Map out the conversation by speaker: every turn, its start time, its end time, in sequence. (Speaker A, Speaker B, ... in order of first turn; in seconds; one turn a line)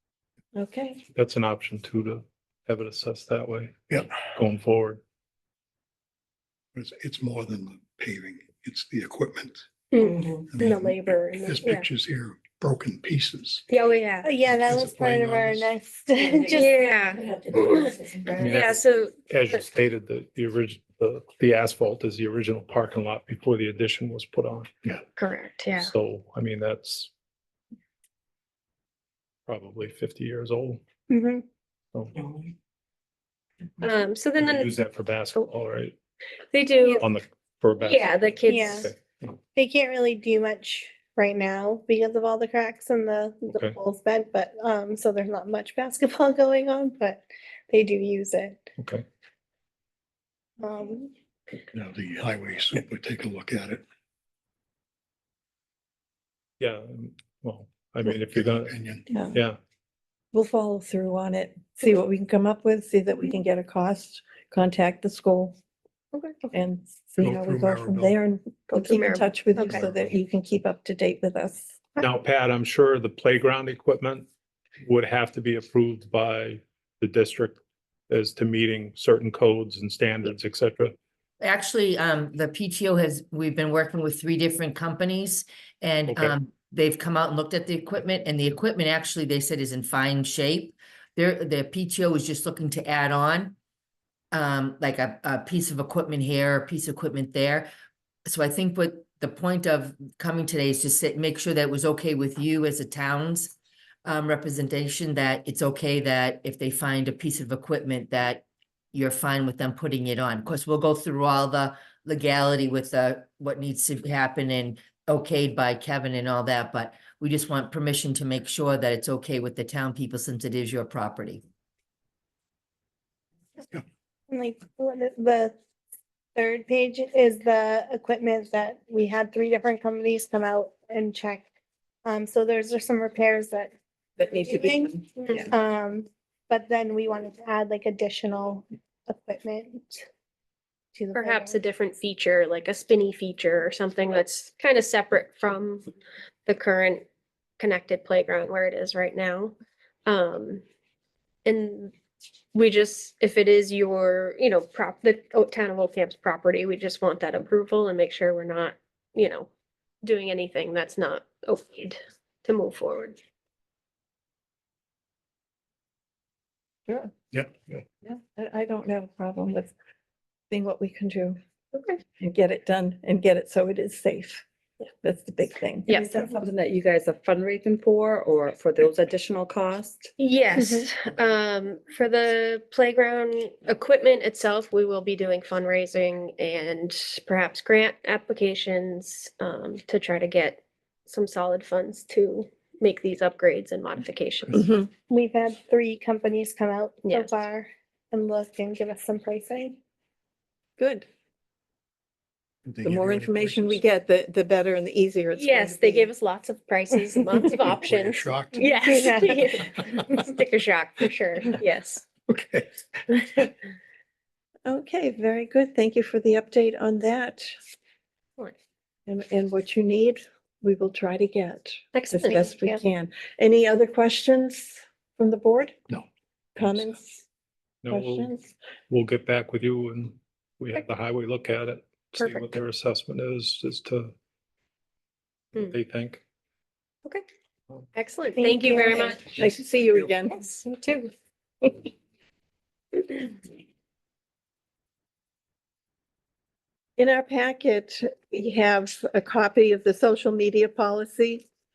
Speaker A: 0.5-1.0
Speaker B: 1.1-5.0
Speaker C: 6.7-9.6
Speaker D: 9.9-11.9
Speaker C: 10.5-10.9
Speaker C: 11.4-13.6
Speaker D: 13.7-14.3
Speaker E: 14.2-16.8
Speaker C: 14.6-15.7
Speaker D: 16.5-19.6
Speaker F: 17.3-18.4
Speaker B: 18.4-24.7
Speaker D: 25.2-25.9
Speaker B: 25.7-27.1
Speaker B: 29.5-30.8
Speaker E: 31.1-31.4
Speaker D: 33.8-34.7
Speaker B: 34.4-35.9
Speaker D: 36.5-37.0
Speaker B: 37.0-39.3
Speaker D: 37.8-38.9
Speaker E: 38.4-38.9
Speaker E: 39.5-48.7
Speaker B: 48.8-49.0
Speaker E: 50.6-51.1
Speaker C: 51.7-53.8
Speaker B: 56.6-58.8
Speaker C: 58.8-59.0
Speaker A: 59.1-59.4
Speaker B: 59.3-59.6
Speaker A: 60.3-65.6
Speaker A: 66.5-71.8
Speaker C: 67.2-68.2
Speaker D: 68.7-69.9
Speaker B: 72.0-74.3
Speaker B: 74.8-80.9
Speaker G: 81.4-93.5
Speaker G: 94.3-97.7
Speaker G: 98.2-121.4
Speaker E: 124.3-125.5
Speaker E: 126.3-131.5
Speaker E: 132.0-140.0
Speaker A: 134.2-134.8
Speaker E: 140.9-141.6
Speaker D: 141.1-145.9
Speaker D: 146.4-147.0
Speaker D: 147.6-149.5
Speaker D: 150.1-150.6
Speaker D: 151.4-151.9
Speaker D: 152.5-159.5
Speaker D: 160.0-163.2
Speaker A: 166.9-167.2
Speaker A: 168.0-169.7
Speaker A: 170.5-171.4
Speaker D: 171.7-172.0
Speaker A: 172.2-174.4
Speaker A: 175.0-176.3
Speaker D: 175.9-176.2
Speaker F: 176.3-180.1
Speaker D: 180.2-194.6
Speaker A: 194.5-194.9
Speaker E: 195.1-199.8
Speaker D: 197.0-197.3
Speaker A: 200.8-201.1
Speaker C: 202.7-203.8
Speaker A: 202.8-206.1
Speaker D: 205.3-212.0
Speaker C: 207.7-208.7
Speaker E: 208.7-209.4
Speaker A: 214.6-217.6
Speaker A: 219.1-225.8
Speaker D: 221.9-222.5
Speaker E: 222.5-222.8
Speaker A: 226.6-227.2
Speaker B: 227.8-228.3
Speaker A: 227.9-228.4
Speaker B: 228.9-234.1
Speaker D: 232.2-232.5
Speaker B: 235.6-236.2
Speaker D: 237.9-239.4
Speaker E: 238.4-239.2
Speaker A: 239.3-240.4
Speaker D: 240.4-241.1
Speaker A: 247.0-251.4